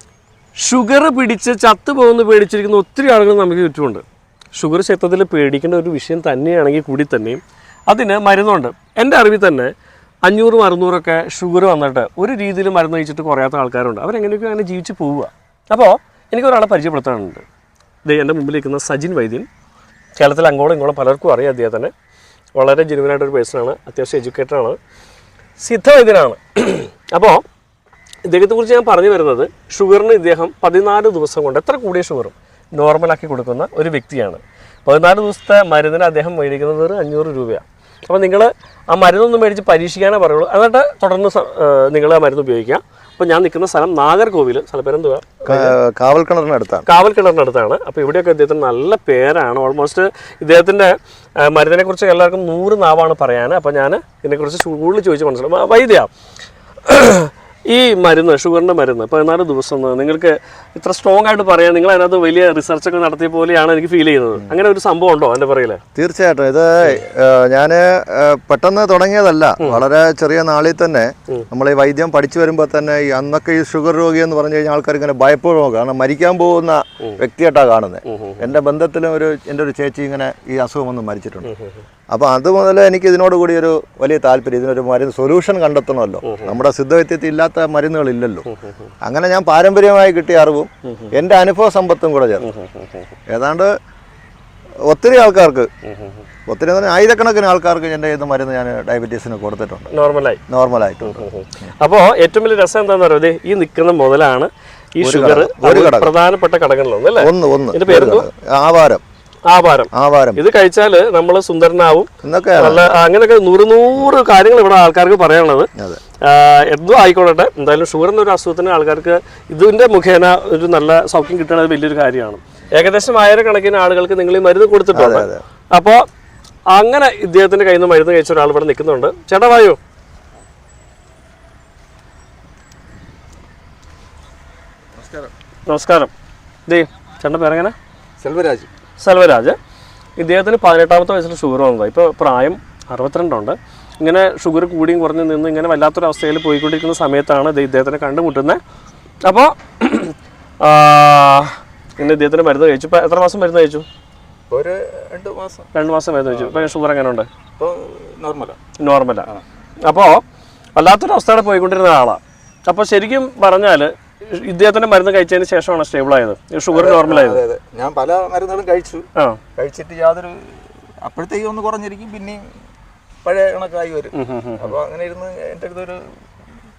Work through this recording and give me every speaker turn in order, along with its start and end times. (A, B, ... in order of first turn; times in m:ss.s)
0:00.6-0:04.0 A
0:04.6-0:09.7 A
0:10.2-0:17.4 A
0:18.1-0:19.5 A
0:20.2-0:21.9 A
0:22.6-0:24.8 A
0:25.6-0:27.4 A
0:28.3-0:45.8 A
0:45.5-0:46.9 B
0:46.9-0:56.1 A
0:56.8-1:05.8 A
1:06.0-1:21.5 B
1:18.1-1:18.5 A
1:21.5-1:21.8 A
1:22.1-1:28.5 B
1:26.2-1:26.6 A
1:28.5-1:28.9 A
1:29.0-1:32.5 B
1:32.4-1:33.1 A
1:33.3-1:33.7 B
1:34.9-1:35.7 B
1:35.9-1:36.2 A
1:36.5-1:39.9 B
1:39.9-1:40.4 A
1:40.5-1:41.3 B
1:41.0-1:48.3 A
1:45.0-1:46.1 B
1:47.2-1:49.0 B
1:49.5-1:55.7 A
1:49.9-1:50.4 B
1:52.2-1:52.9 B
1:56.2-2:06.0 A
2:04.9-2:05.4 B
2:06.7-2:09.8 A
2:15.0-2:15.3 C
2:15.7-2:16.1 A
2:16.7-2:17.8 A
2:18.2-2:18.7 C
2:19.0-2:19.6 A
2:20.2-2:28.6 A
2:29.2-2:33.9 A
2:34.5-2:35.7 C
2:35.7-2:37.3 A
2:36.3-2:36.7 C
2:37.6-2:38.6 C
2:38.8-2:39.3 A
2:39.8-2:40.2 A
2:40.8-2:47.4 A
2:46.7-2:52.5 C
2:49.2-2:49.4 A
2:53.2-2:56.2 C
2:54.1-2:54.8 A